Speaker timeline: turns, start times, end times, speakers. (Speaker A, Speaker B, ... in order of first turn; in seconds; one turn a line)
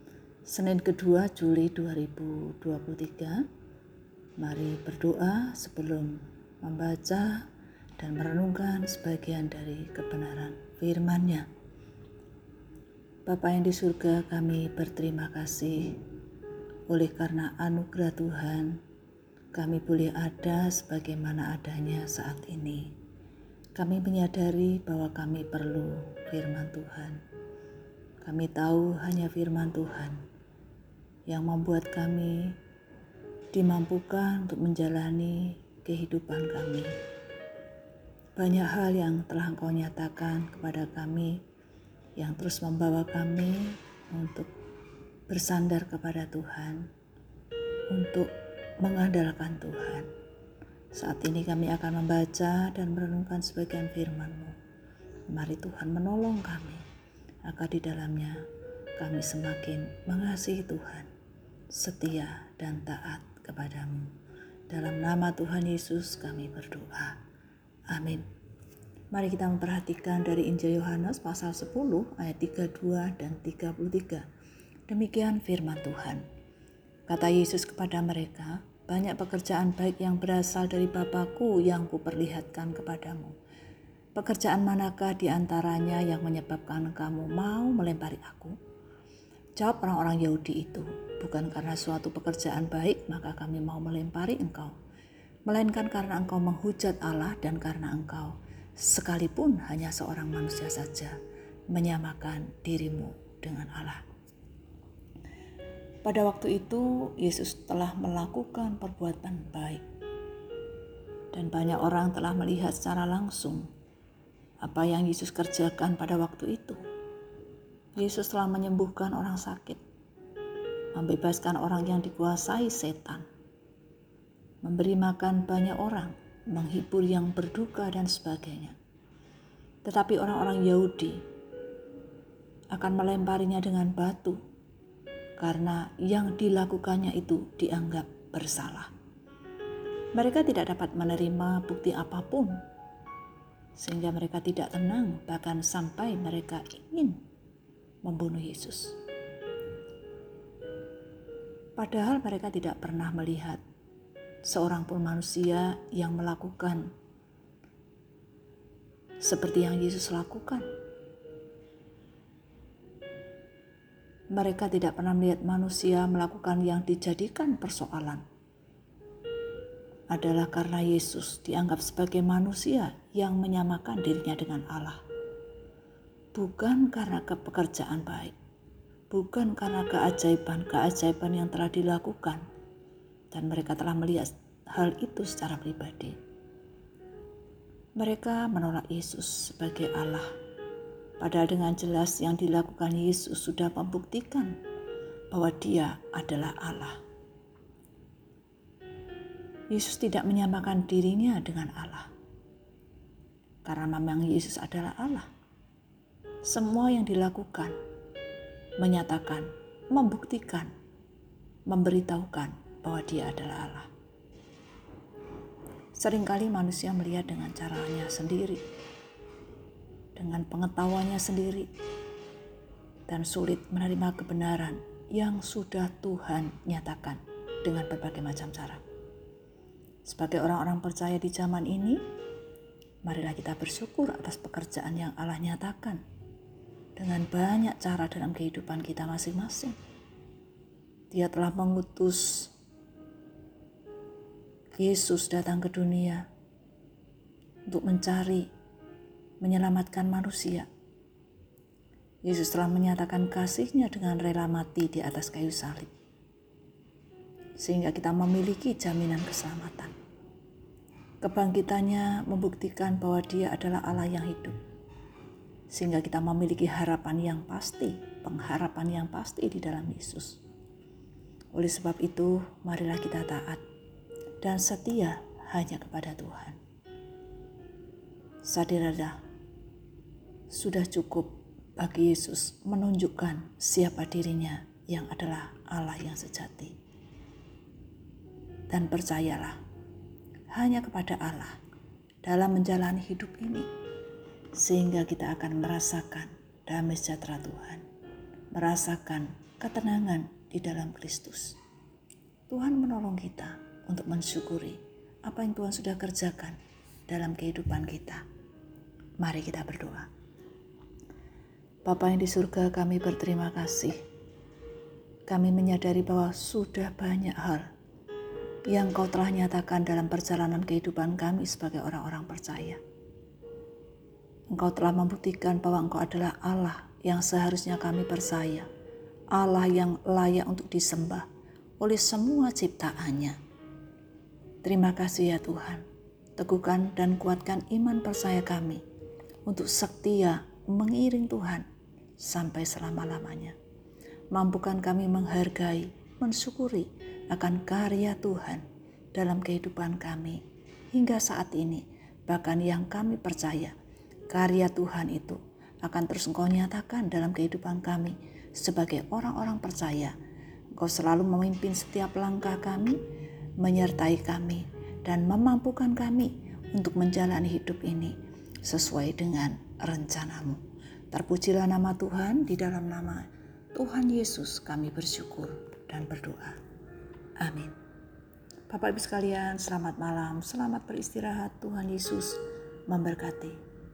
Speaker A: 0.5-3.4
Speaker A: 4.4-7.5
Speaker A: 8.0-11.5
Speaker A: 13.2-16.0
Speaker A: 16.9-18.8
Speaker A: 19.5-22.9
Speaker A: 23.8-27.2
Speaker A: 28.2-30.2
Speaker A: 31.3-32.5
Speaker A: 33.5-36.9
Speaker A: 38.4-41.4
Speaker A: 42.2-44.5
Speaker A: 45.3-46.9
Speaker A: 47.9-48.3
Speaker A: 48.8-50.1
Speaker A: 50.9-54.5
Speaker A: 55.3-56.8
Speaker A: 57.4-58.4
Speaker A: 59.0-61.1
Speaker A: 61.7-64.1
Speaker A: 64.7-67.2
Speaker A: 67.9-68.2
Speaker A: 69.1-74.2
Speaker A: 74.9-76.2
Speaker A: 77.1-83.3
Speaker A: 84.2-88.5
Speaker A: 89.5-94.7
Speaker A: 95.5-101.1
Speaker A: 101.7-104.0
Speaker A: 106.0-109.8
Speaker A: 111.3-113.7
Speaker A: 114.6-116.8
Speaker A: 118.0-119.8
Speaker A: 120.9-123.2
Speaker A: 124.6-128.8
Speaker A: 129.8-131.2
Speaker A: 132.7-134.4
Speaker A: 135.4-138.9
Speaker A: 140.1-142.6
Speaker A: 143.8-147.2
Speaker A: 148.0-149.0
Speaker A: 151.8-153.6
Speaker A: 154.4-156.9
Speaker A: 159.2-160.7
Speaker A: 164.3-168.2
Speaker A: 170.1-175.0
Speaker A: 176.3-178.3
Speaker A: 179.1-182.4
Speaker A: 183.3-186.2
Speaker A: 188.0-190.3
Speaker A: 191.2-194.5
Speaker A: 195.3-197.0
Speaker A: 199.7-202.1
Speaker A: 203.6-205.3
Speaker A: 206.4-207.7
Speaker A: 208.8-210.7
Speaker A: 211.7-213.9
Speaker A: 215.9-218.6
Speaker A: 220.2-221.7
Speaker A: 223.1-228.8
Speaker A: 230.0-232.0
Speaker A: 233.0-236.0
Speaker A: 236.9-239.8
Speaker A: 241.1-242.5
Speaker A: 244.7-246.2
Speaker A: 247.7-248.5
Speaker A: 249.4-250.7
Speaker A: 252.2-255.9
Speaker A: 257.6-259.9
Speaker A: 261.2-264.6
Speaker A: 265.7-270.4
Speaker A: 271.5-273.6
Speaker A: 274.4-276.6
Speaker A: 278.4-279.2
Speaker A: 280.5-286.7
Speaker A: 288.7-289.6
Speaker A: 290.5-291.6
Speaker A: 292.2-293.7
Speaker A: 294.6-297.8
Speaker A: 298.5-301.6
Speaker A: 302.5-308.2
Speaker A: 309.2-310.1
Speaker A: 311.9-313.9
Speaker A: 315.3-317.7
Speaker A: 318.7-322.8
Speaker A: 324.5-328.7
Speaker A: 329.4-331.2
Speaker A: 331.8-333.4
Speaker A: 334.6-335.8
Speaker A: 336.4-338.8
Speaker A: 339.5-341.6
Speaker A: 342.2-343.6
Speaker A: 344.3-350.4
Speaker A: 350.9-353.7
Speaker A: 354.3-360.1
Speaker A: 360.8-363.0
Speaker A: 363.6-370.6
Speaker A: 371.1-376.6
Speaker A: 377.4-377.7
Speaker A: 378.7-383.6